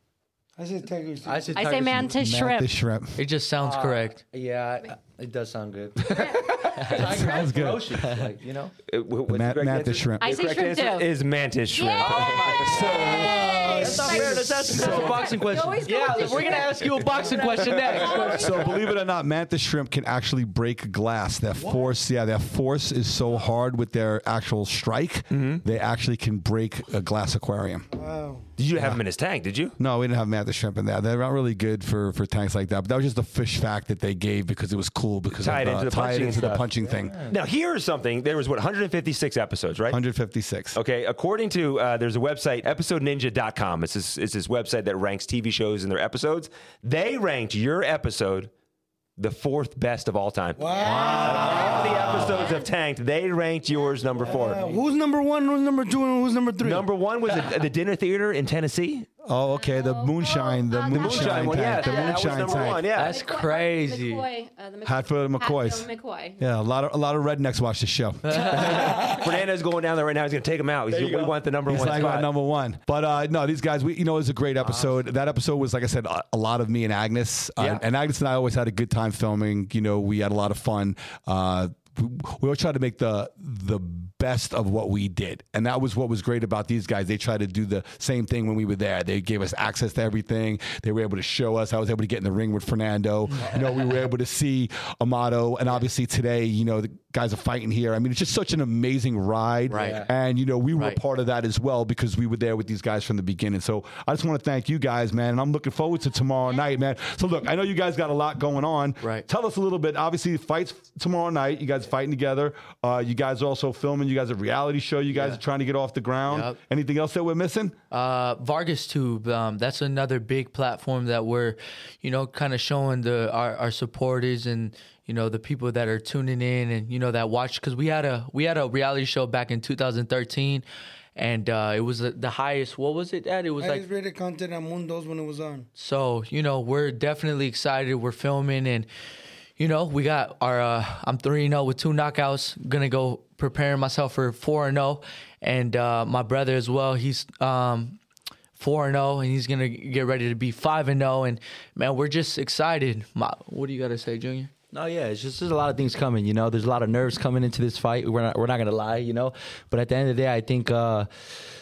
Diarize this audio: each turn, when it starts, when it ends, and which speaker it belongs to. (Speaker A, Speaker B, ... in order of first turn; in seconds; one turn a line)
Speaker A: 0.6-1.6
Speaker B: 1.2-2.2
Speaker C: 1.5-2.7
Speaker D: 2.0-3.2
Speaker E: 3.1-4.2
Speaker B: 3.6-6.2
Speaker C: 6.0-7.5
Speaker F: 6.0-6.8
Speaker B: 6.7-8.7
Speaker D: 6.9-8.1
Speaker F: 8.9-12.8
Speaker D: 9.3-10.3
Speaker C: 10.2-11.1
Speaker C: 11.7-16.8
Speaker B: 11.9-18.6
Speaker D: 12.6-15.4
Speaker E: 13.6-14.4
Speaker A: 13.8-14.7
Speaker E: 15.9-18.6
Speaker A: 17.1-17.7
Speaker C: 17.9-18.6
Speaker D: 17.9-27.8
Speaker B: 21.5-21.9
Speaker F: 25.3-25.6
Speaker A: 27.9-28.4
Speaker F: 28.6-29.8
Speaker D: 28.7-29.0
Speaker D: 29.8-37.1
Speaker F: 35.4-36.7
Speaker B: 36.3-37.4
Speaker F: 37.3-40.0
Speaker D: 39.9-40.8
Speaker F: 40.7-48.5
Speaker F: 49.2-54.6
Speaker A: 50.6-52.2
Speaker C: 50.7-52.7
Speaker D: 50.8-52.5
Speaker C: 53.8-54.4
Speaker A: 54.2-56.9
Speaker F: 56.6-59.1
Speaker D: 59.2-62.9
Speaker C: 59.5-66.4
Speaker F: 60.9-63.2
Speaker E: 62.9-64.2
Speaker D: 64.8-65.9
Speaker D: 66.4-68.9
Speaker E: 68.2-69.1
Speaker C: 68.3-69.3
Speaker F: 68.5-72.3
Speaker B: 70.9-71.3
Speaker D: 71.6-117.7
Speaker B: 74.6-75.0
Speaker F: 77.6-77.8
Speaker E: 99.7-100.1
Speaker B: 99.7-100.1
Speaker E: 100.7-101.0
Speaker E: 109.0-109.2
Speaker E: 115.1-115.4
Speaker E: 116.2-116.6
Speaker E: 117.9-130.6
Speaker E: 131.2-133.8
Speaker A: 133.6-135.7
Speaker E: 135.8-138.9
Speaker E: 139.6-148.0
Speaker E: 148.6-154.5
Speaker B: 154.7-161.3